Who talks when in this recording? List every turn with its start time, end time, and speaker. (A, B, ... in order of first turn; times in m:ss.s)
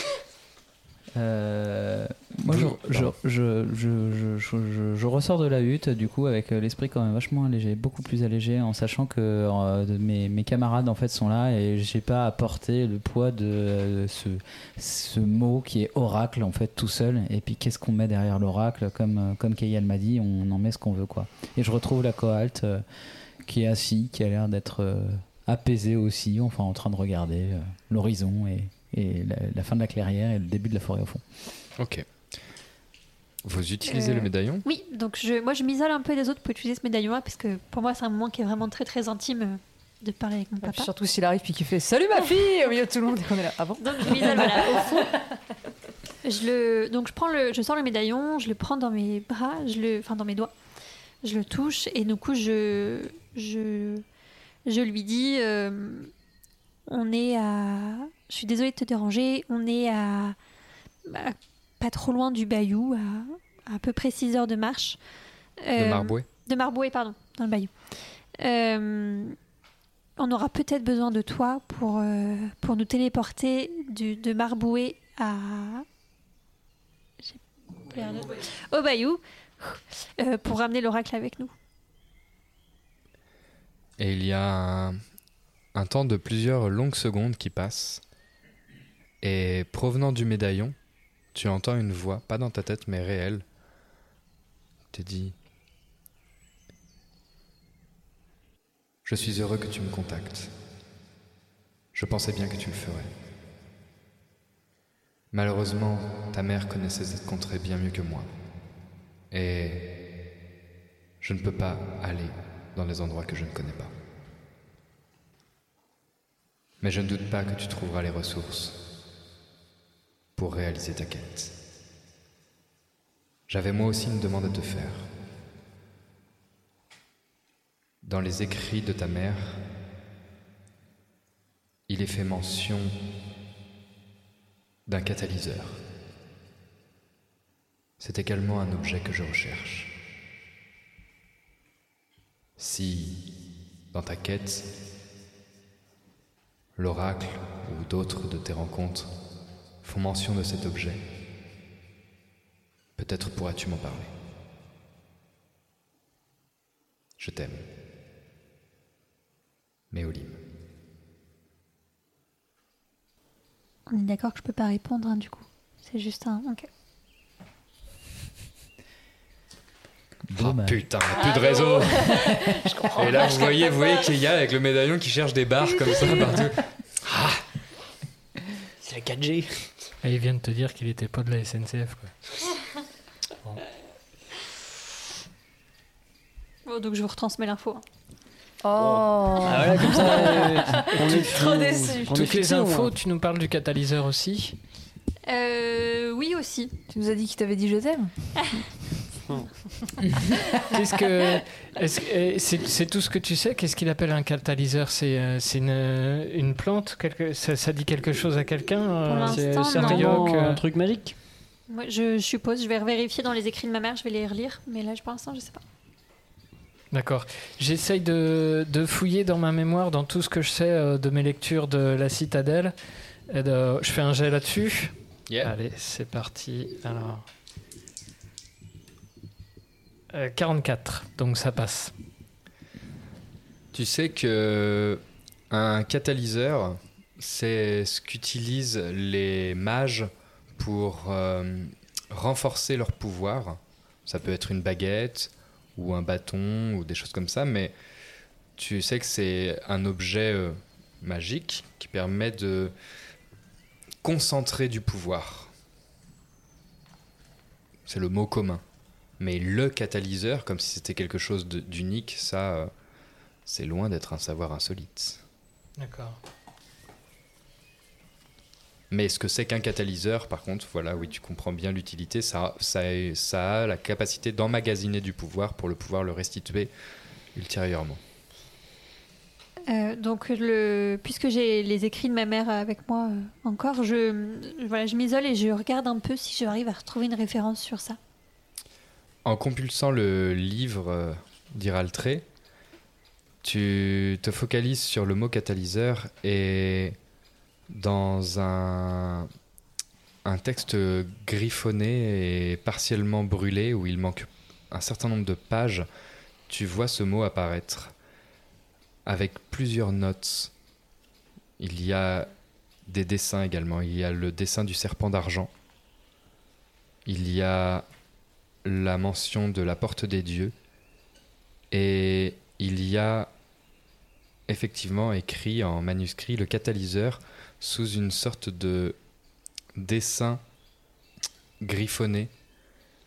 0:01.1-0:22.8 A
0:02.5-0:03.1 B
0:23.4-0:31.2 A
0:31.8-0:32.0 B
0:33.4-0:34.6 B
0:33.8-0:40.9 C
0:40.6-0:45.2 D
0:43.8-0:45.2 C
0:46.2-0:50.5 C
0:51.2-0:54.0 C
0:54.6-0:56.1 C
0:56.9-1:00.4 C
1:01.1-1:05.0 C
1:05.6-1:09.4 C
1:05.8-1:06.2 B
1:10.2-1:15.8 C
1:17.2-1:21.5 C
1:24.0-1:25.0 B
1:25.7-1:28.0 B
1:29.2-1:30.7 B
1:31.3-1:33.4 B
1:34.9-1:35.3 B
1:39.0-1:40.5 B
1:41.9-1:43.1 B
1:45.3-1:48.3 B
1:49.3-1:49.8 B
1:51.2-1:53.9 B
1:56.8-1:58.8 B
2:00.4-2:01.5 B
2:03.5-2:05.1 B
2:08.0-2:09.6 B
2:11.9-2:12.9 B
2:14.9-2:15.8 B
2:18.0-2:19.9 B
2:22.6-2:23.2 B
2:23.9-2:24.6 B
2:26.8-2:29.1 B
2:29.8-2:31.0 B
2:33.0-2:34.1 B
2:37.2-2:37.6 B
2:39.9-2:40.4 B
2:43.9-2:46.7 C
2:50.3-2:50.8 A
2:50.4-2:52.3 B
2:51.3-2:53.5 D
2:52.0-2:52.6 A
2:53.0-2:57.4 B
2:55.9-2:56.4 C
2:58.8-2:59.7 E
3:00.0-3:02.1 F
3:06.6-3:07.8 C
3:08.6-3:12.3 D
3:08.8-3:12.9 E
3:11.0-3:11.2 F
3:12.1-3:14.6 F
3:15.2-3:16.7 C
3:16.9-3:18.1 D
3:20.7-3:30.6 F
3:29.1-3:30.3 C
3:29.2-3:31.2 E
3:31.7-3:35.6 C
3:36.9-3:42.7 F
3:43.3-3:47.2 F
3:50.1-3:51.9 F
3:53.7-4:07.7 B
4:08.6-4:12.7 B
4:14.0-4:15.5 B
4:17.9-4:18.6 B
4:19.2-4:22.7 B
4:23.4-4:25.2 B
4:25.8-4:26.2 F
4:28.9-4:36.7 B
4:37.3-4:38.0 B
4:39.7-4:48.0 C
4:49.2-4:52.2 B
4:53.4-4:57.0 B
4:57.7-4:59.3 B
5:00.2-5:05.9 B
5:06.5-5:07.9 B
5:09.0-5:10.5 B
5:11.6-5:12.3 B
5:12.9-5:15.5 B
5:17.0-5:17.8 B
5:18.6-5:20.5 B
5:21.7-5:23.3 B
5:24.5-5:29.0 B
5:29.8-5:30.4 B
5:31.6-5:32.3 B